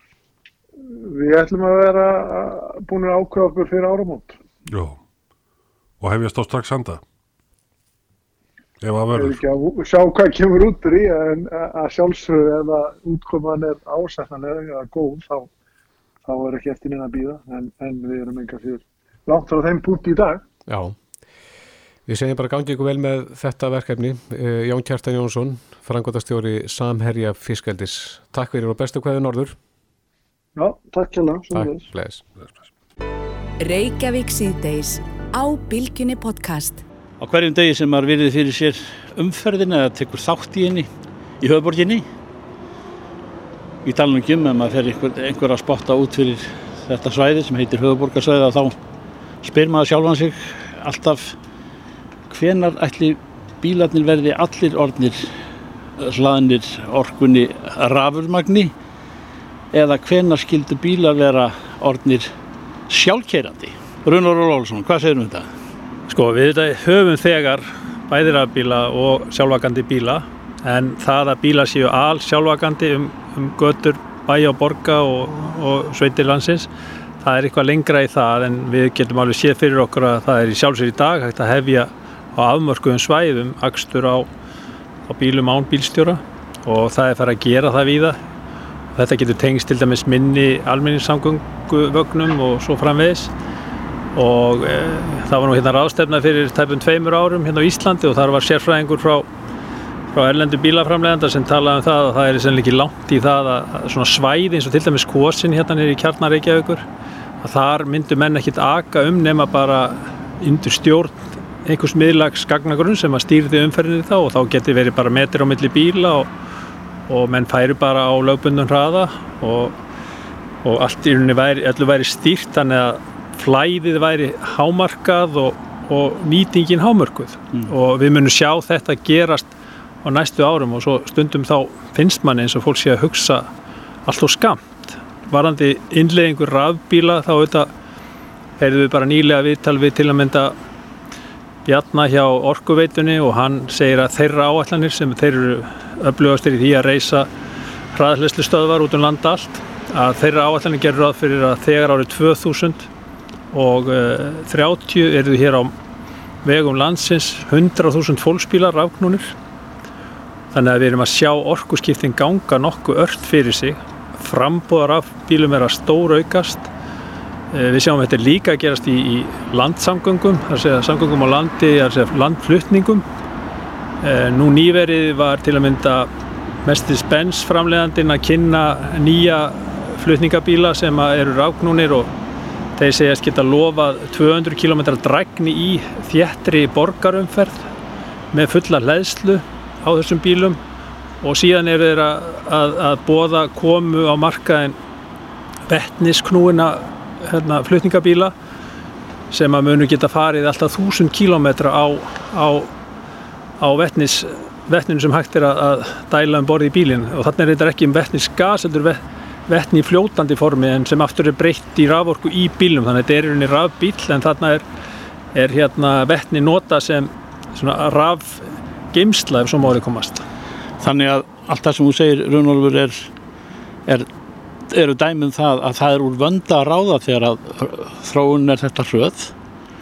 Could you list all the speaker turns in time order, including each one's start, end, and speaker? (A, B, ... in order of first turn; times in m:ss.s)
0:00.9-0:04.4 A
0:04.7-0:05.0 B
0:06.0-0:07.0 B
0:08.8-0:09.4 B
0:09.1-0:15.5 A
0:16.2-0:20.4 A
0:20.7-0:21.0 C
0:22.1-0:29.6 C
0:30.6-0:31.9 A
0:31.5-0:32.2 C
0:33.6-0:36.8 D
0:37.2-0:40.9 E
0:41.4-0:42.1 E
0:43.8-0:48.8 E
0:49.4-0:51.4 E
0:52.3-0:55.3 E
0:56.0-0:58.7 E
0:59.7-1:02.3 E
1:02.9-1:05.5 E
1:06.1-1:16.7 F
1:17.2-1:24.3 F
1:25.1-1:28.2 F
1:29.0-1:33.3 F
1:34.1-1:39.3 F
1:40.1-1:46.8 F
1:47.4-1:56.3 F
1:57.1-1:59.7 F
2:00.6-2:09.5 F
2:10.0-2:13.5 F
2:14.0-2:17.7 F
2:18.6-2:20.6 F
2:21.6-2:27.3 F
2:27.9-2:32.9 F
2:33.5-2:35.7 F
2:36.4-2:39.3 F
2:40.5-2:46.7 F
2:47.5-2:53.0 F
2:54.0-2:56.1 F
2:56.6-3:02.1 F
3:02.8-3:07.7 F
3:08.3-3:10.6 F
3:11.2-3:14.8 F
3:15.7-3:18.3 F
3:19.3-3:22.7 F
3:23.6-3:34.6 F
3:35.3-3:40.2 F
3:40.8-3:43.1 E
3:44.7-3:49.3 E